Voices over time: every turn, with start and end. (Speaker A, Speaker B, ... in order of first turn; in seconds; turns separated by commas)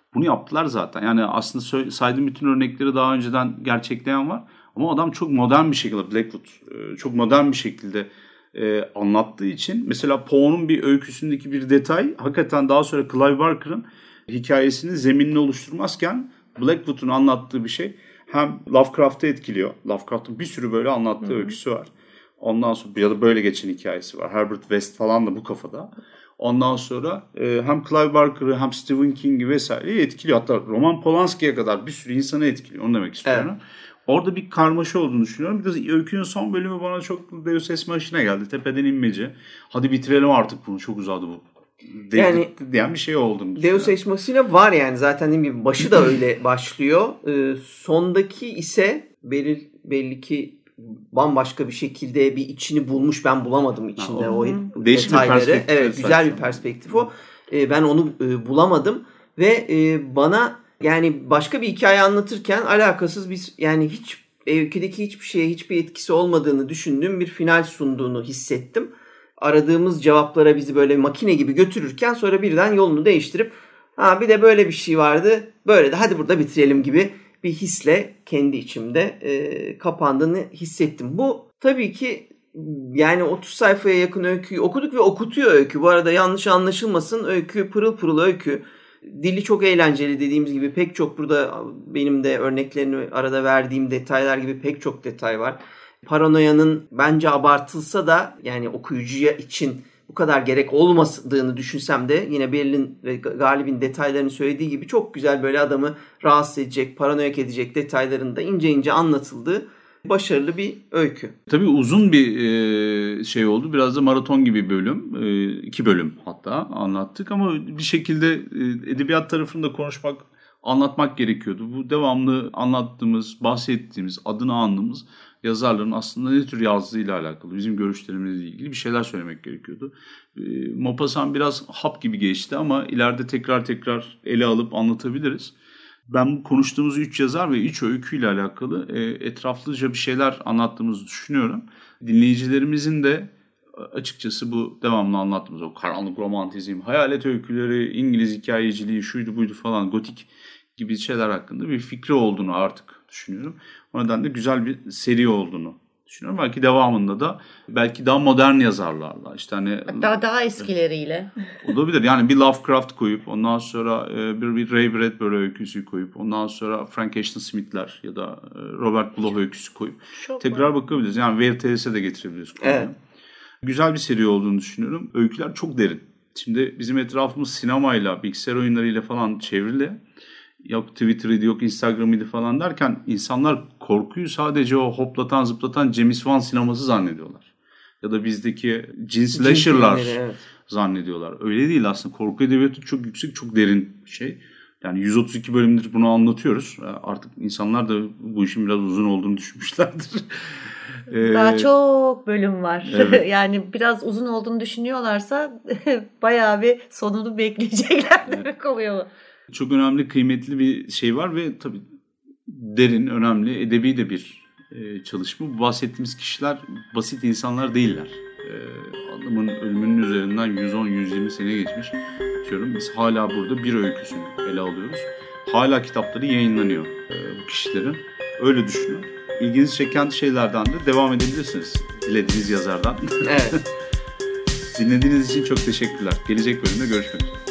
Speaker A: 0.1-43.9, Speaker B: 42.1-42.5, Speaker B: 43.6-111.3, Speaker A: 54.0-56.5, Speaker C: 54.2-54.6, Speaker A: 111.5-135.5, Speaker A: 136.1-160.1, Speaker C: 159.9-161.3, Speaker A: 161.6-172.9, Speaker C: 170.2-170.7, Speaker B: 172.6-172.9, Speaker A: 173.6-180.0, Speaker A: 180.6-187.5, Speaker A: 188.0-201.7, Speaker B: 189.3-190.4, Speaker C: 201.2-209.1, Speaker A: 202.8-203.2, Speaker A: 209.5-211.9, Speaker A: 212.4-233.6, Speaker B: 233.2-233.6, Speaker A: 234.7-237.4